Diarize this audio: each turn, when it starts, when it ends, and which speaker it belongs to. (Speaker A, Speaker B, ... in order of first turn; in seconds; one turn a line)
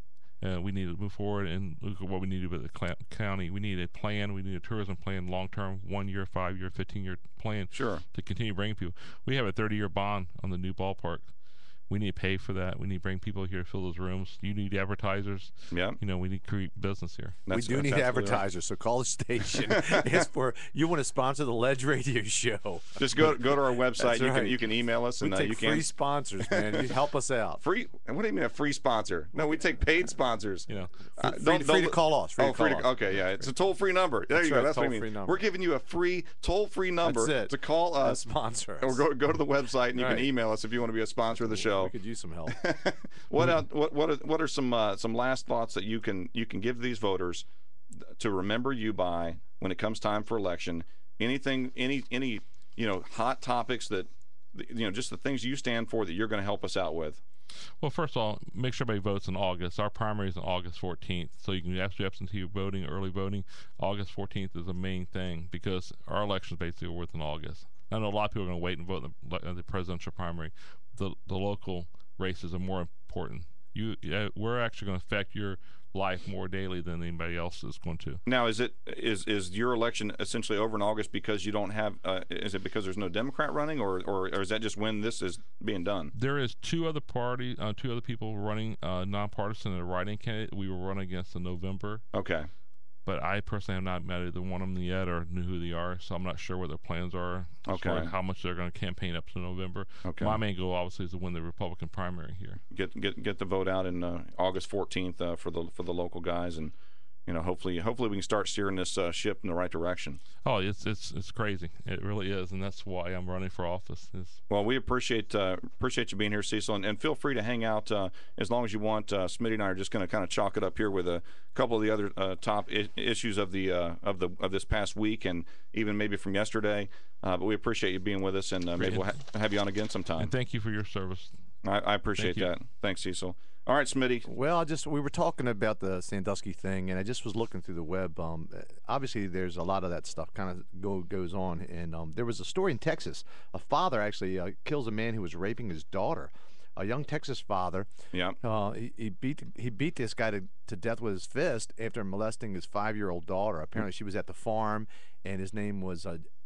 Speaker A: 0.4-11.3
Speaker B: 7.7-8.0
Speaker A: 11.9-17.4
Speaker B: 15.7-16.0
Speaker B: 17.5-18.4
Speaker C: 17.5-24.6
Speaker B: 19.7-20.2
Speaker B: 23.0-25.9
Speaker C: 25.2-27.6
Speaker B: 26.5-26.9
Speaker B: 27.6-38.2
Speaker A: 30.7-31.1
Speaker C: 31.2-32.9
Speaker C: 34.3-35.4
Speaker C: 37.0-39.0
Speaker B: 38.8-41.9
Speaker C: 40.0-40.3
Speaker C: 41.4-42.6
Speaker B: 42.5-47.5
Speaker B: 48.2-57.2
Speaker A: 57.8-78.2
Speaker B: 78.3-86.1
Speaker A: 86.1-92.0
Speaker B: 92.1-92.5
Speaker A: 93.1-102.6
Speaker B: 97.7-98.1
Speaker B: 100.0-100.4
Speaker B: 102.7-106.8
Speaker B: 107.3-110.2
Speaker A: 110.4-114.4
Speaker B: 114.5-130.3
Speaker A: 128.8-129.2
Speaker A: 130.2-131.3
Speaker B: 131.6-134.3
Speaker A: 132.2-132.5
Speaker C: 134.3-147.9
Speaker B: 148.1-148.4
Speaker C: 148.4-156.2